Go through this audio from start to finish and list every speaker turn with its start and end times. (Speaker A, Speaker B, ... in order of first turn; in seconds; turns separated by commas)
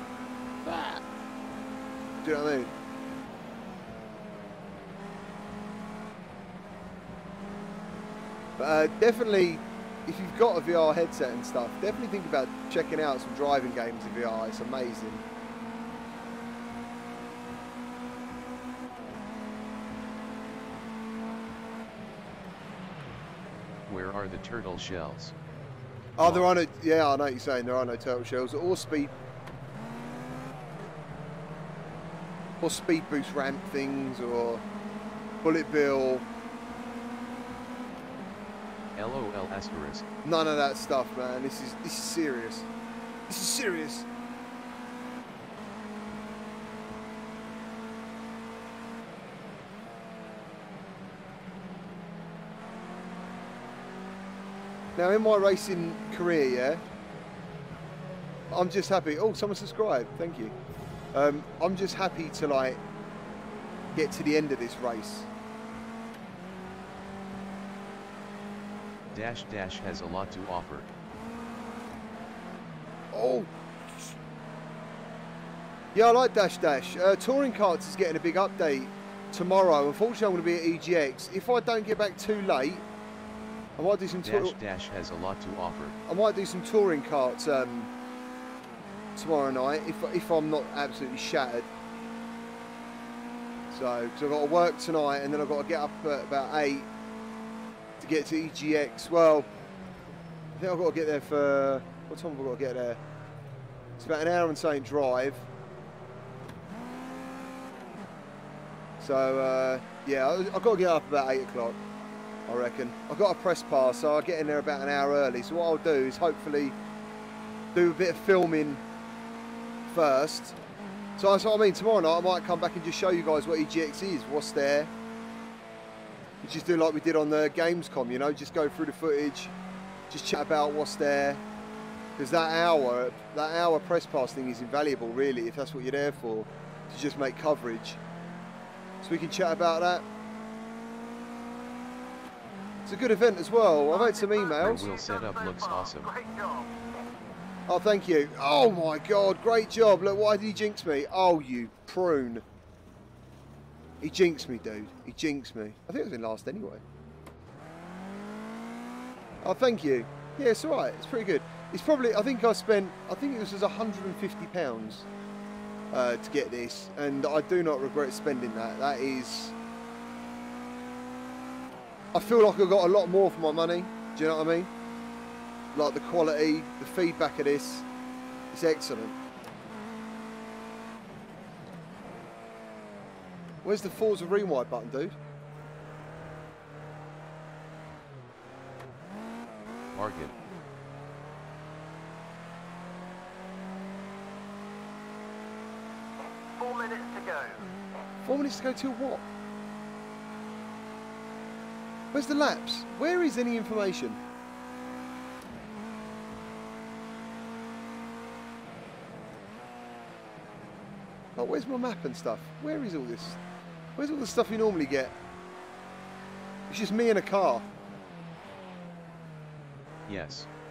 Speaker A: 0.6-1.0, Speaker A: 2.2-2.7, Speaker A: 8.6-15.2, Speaker B: 23.9-25.4, Speaker A: 26.2-29.1, Speaker B: 26.2-26.5, Speaker A: 32.6-34.6, Speaker A: 35.4-36.2, Speaker B: 39.0-40.0, Speaker A: 40.2-42.7, Speaker A: 43.3-44.1, Speaker A: 55.0-56.8, Speaker A: 58.5-60.5, Speaker A: 61.1-62.8, Speaker A: 63.9-65.3, Speaker B: 69.1-70.9, Speaker A: 73.1-74.1, Speaker A: 75.9-82.8, Speaker A: 83.8-84.6, Speaker B: 84.2-86.0, Speaker A: 86.1-87.9, Speaker A: 89.2-91.7, Speaker A: 93.7-96.9, Speaker A: 98.0-99.5, Speaker A: 100.5-103.0, Speaker A: 104.0-105.5, Speaker A: 109.0-111.8, Speaker A: 112.5-116.8, Speaker A: 117.7-118.8, Speaker A: 119.9-120.6, Speaker A: 121.2-124.9, Speaker A: 126.4-129.5, Speaker A: 130.1-131.4, Speaker A: 132.2-138.0, Speaker A: 139.0-140.1, Speaker A: 142.8-144.9, Speaker C: 143.9-146.7, Speaker B: 144.6-146.1, Speaker A: 147.7-152.4, Speaker A: 154.0-156.8, Speaker A: 159.4-165.1, Speaker A: 165.9-169.5, Speaker A: 172.1-174.7, Speaker A: 175.7-177.9, Speaker A: 178.5-179.2, Speaker A: 183.6-185.2, Speaker B: 189.9-190.4, Speaker C: 196.6-197.6, Speaker A: 198.2-199.2, Speaker A: 202.1-204.2, Speaker A: 211.4-213.4, Speaker A: 214.0-215.2, Speaker A: 216.7-217.7, Speaker B: 220.1-220.5